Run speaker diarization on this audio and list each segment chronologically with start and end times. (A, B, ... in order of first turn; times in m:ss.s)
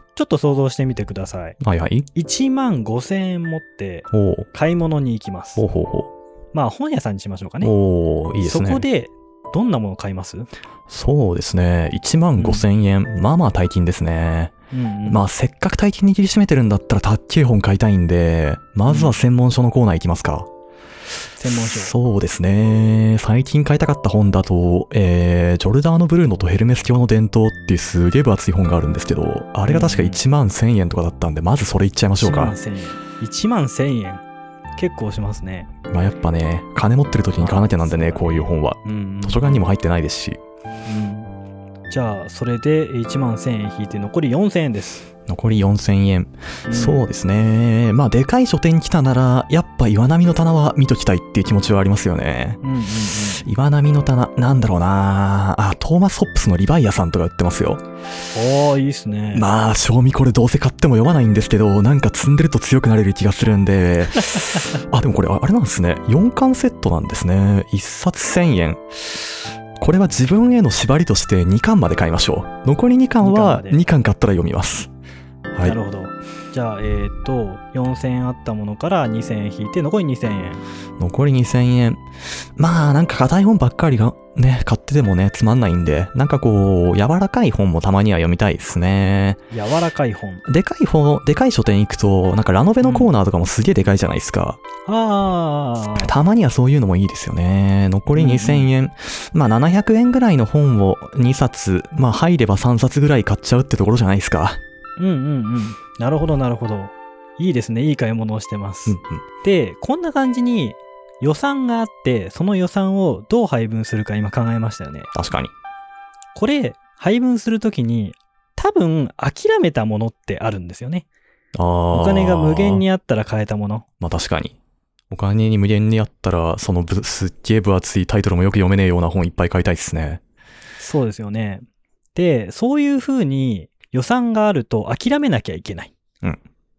0:00.2-0:01.6 A
0:01.6-0:02.1 B
0:02.2-0:05.6 A
0:04.1-0:04.5 B
0:05.6-0:06.1 B
0:06.5-0:07.7 A
0:07.6-0:08.8 B
0:08.4-0:10.5 A
0:10.9-0:14.5 B
0:12.4-0:12.6 A
0:14.7-0:15.2 A
0:15.1-0:20.5 B
0:18.9-0:19.2 A
0:21.4-0:21.9 A
0:21.4-0:32.6 B
0:29.7-0:30.2 A
0:32.2-0:34.2 A
0:34.8-0:35.7 A
0:35.9-0:40.4 B
0:37.4-0:39.6 A
0:40.8-0:41.3 A
0:41.9-0:45.1 A
0:45.3-0:52.6 B
0:46.7-0:47.0 A
0:52.6-0:53.5 A
0:53.4-0:57.8 B
0:58.3-0:59.4 A
0:59.3-1:14.9 B
1:13.2-1:13.8 A
1:15.6-1:20.6 A
1:21.0-1:29.4 B
1:29.5-1:30.4 A
1:30.5-1:34.6 B
1:32.8-1:33.1 A
1:34.9-1:36.1 A
1:36.0-1:44.6 B
1:38.1-1:38.7 A
1:45.0-1:55.1 A
1:48.9-1:49.2 B
1:55.1-1:55.5 B
1:56.3-2:01.1 A
2:01.6-2:02.8 B
2:01.9-2:03.8 A
2:04.0-2:04.6 B
2:05.1-2:10.2 B
2:10.8-2:11.6 A
2:12.2-2:15.9 A